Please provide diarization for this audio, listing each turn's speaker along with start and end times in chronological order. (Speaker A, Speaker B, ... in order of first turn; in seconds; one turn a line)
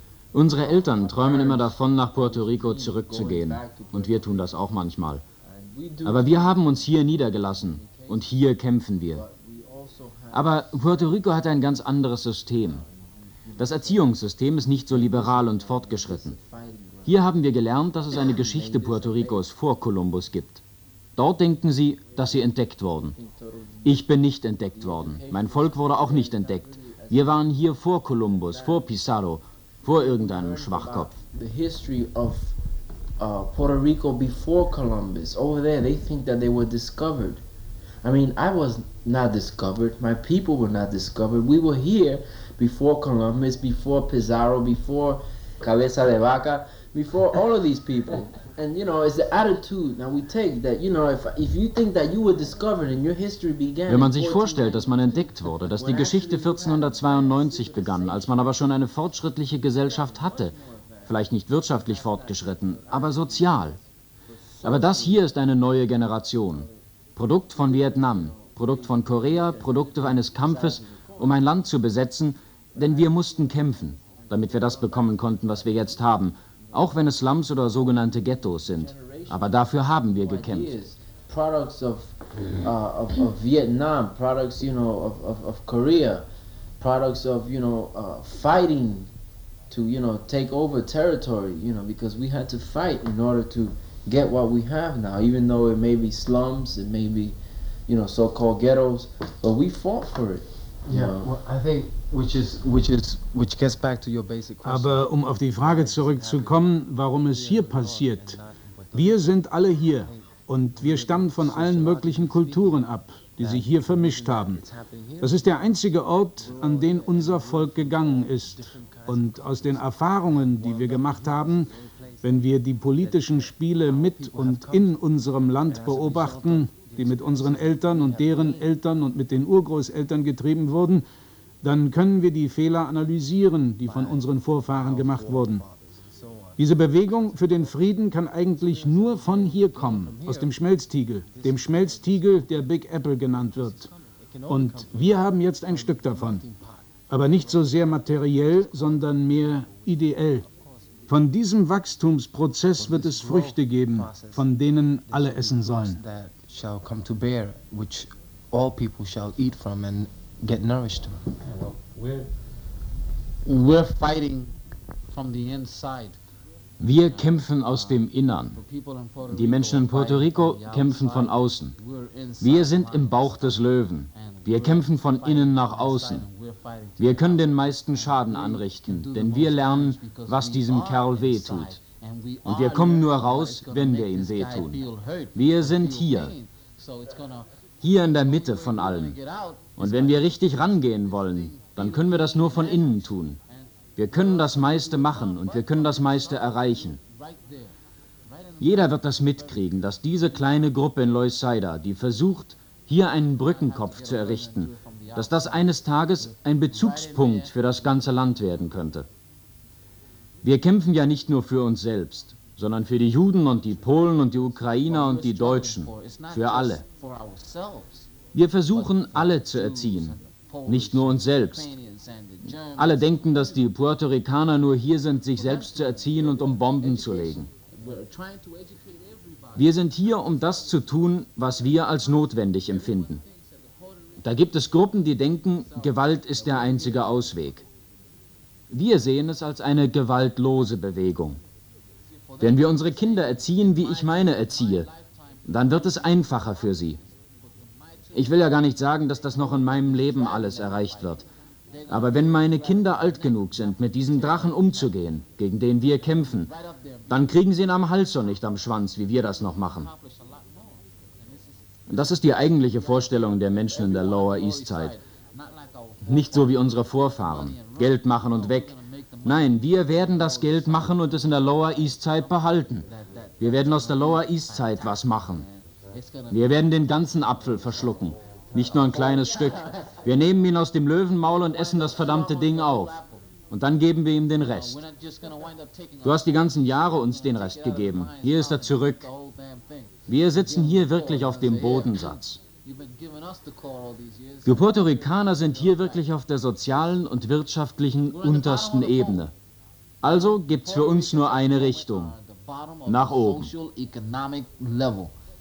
Speaker A: 0.3-5.2
Speaker B: 0.6-4.5
Speaker B: 5.4-6.8
Speaker A: 6.0-9.2
Speaker B: 9.1-11.1
Speaker A: 10.3-12.8
Speaker B: 12.7-14.1
Speaker A: 13.6-16.4
Speaker B: 14.9-17.2
Speaker A: 17.0-20.6
Speaker B: 18.3-19.4
Speaker A: 21.1-23.2
Speaker B: 23.1-24.0
Speaker A: 23.8-31.1
Speaker B: 24.7-27.3
Speaker B: 28.2-28.9
Speaker B: 29.8-32.6
Speaker B: 33.2-37.4
Speaker B: 38.0-54.8
Speaker A: 53.9-63.8
Speaker B: 55.7-57.1
Speaker C: 57.0-58.5
Speaker C: 59.9-61.1
Speaker C: 61.8-63.7
Speaker B: 64.4-65.2
Speaker A: 64.6-80.8
Speaker B: 67.6-71.1
Speaker C: 72.8-76.0
Speaker C: 78.1-80.1
Speaker B: 80.3-86.3
Speaker B: 86.8-89.1
Speaker B: 89.7-101.3
Speaker C: 100.9-112.8
Speaker D: 104.6-108.4
Speaker D: 108.9-114.6
Speaker C: 113.4-114.6
Speaker B: 114.1-115.4
Speaker D: 115.2-131.0
Speaker C: 116.4-124.9
Speaker B: 116.6-119.8
Speaker B: 124.2-124.8
Speaker C: 125.7-128.7
Speaker D: 131.6-135.6
Speaker C: 133.8-136.4
Speaker B: 136.2-136.5
Speaker D: 136.6-143.9
Speaker C: 137.0-140.4
Speaker B: 139.6-140.4
Speaker C: 141.2-142.5
Speaker C: 143.4-146.6
Speaker D: 144.5-146.4
Speaker D: 147.1-150.4
Speaker C: 147.1-150.5
Speaker D: 151.1-156.0
Speaker C: 152.8-161.3
Speaker E: 161.4-162.3
Speaker E: 163.4-164.5
Speaker E: 165.1-166.2
Speaker A: 166.8-168.6
Speaker E: 168.6-169.8
Speaker A: 169.3-171.8
Speaker C: 169.8-170.3
Speaker E: 170.4-173.5
Speaker A: 172.4-176.3
Speaker E: 174.1-174.8
Speaker E: 175.6-176.7
Speaker A: 177.0-181.8
Speaker E: 177.9-182.5
Speaker A: 182.4-186.3
Speaker E: 183.5-187.4
Speaker C: 187.1-187.4
Speaker A: 187.8-189.2
Speaker E: 188.9-190.1
Speaker A: 189.8-193.4
Speaker C: 190.8-197.7
Speaker A: 194.0-197.0
Speaker C: 198.3-199.6
Speaker A: 198.6-209.1
Speaker C: 203.4-208.1
Speaker A: 210.4-216.8
Speaker C: 214.3-215.2
Speaker E: 215.2-217.3
Speaker C: 216.9-218.1
Speaker A: 218.3-221.7
Speaker C: 219.1-219.8
Speaker E: 220.3-222.1
Speaker C: 220.8-223.6
Speaker A: 222.7-227.5
Speaker C: 226.2-231.0
Speaker A: 229.5-233.2
Speaker C: 231.5-234.9
Speaker A: 234.2-237.6
Speaker C: 235.5-237.6
Speaker A: 238.7-241.4
Speaker C: 242.2-254.9
Speaker A: 242.4-244.9
Speaker A: 245.4-247.0
Speaker A: 248.1-251.2
Speaker A: 251.9-256.5
Speaker C: 256.0-257.3
Speaker A: 257.1-259.9
Speaker C: 259.3-266.5
Speaker A: 261.9-265.0
Speaker A: 266.0-272.9
Speaker C: 267.2-268.7
Speaker C: 269.9-271.0
Speaker C: 272.8-275.2
Speaker A: 273.4-275.5
Speaker C: 275.9-276.3
Speaker E: 275.9-276.3
Speaker A: 276.3-284.8
Speaker C: 277.6-277.8
Speaker C: 278.6-279.5
Speaker C: 281.3-283.2
Speaker C: 284.5-289.9
Speaker E: 284.9-285.9
Speaker A: 286.0-289.1
Speaker A: 290.1-292.4
Speaker C: 290.4-292.1
Speaker E: 291.0-291.8
Speaker E: 292.7-294.6
Speaker C: 292.7-296.0
Speaker A: 294.4-299.3
Speaker E: 298.2-299.1
Speaker A: 300.0-302.1
Speaker C: 300.8-301.9
Speaker E: 302.0-305.1
Speaker A: 302.9-303.5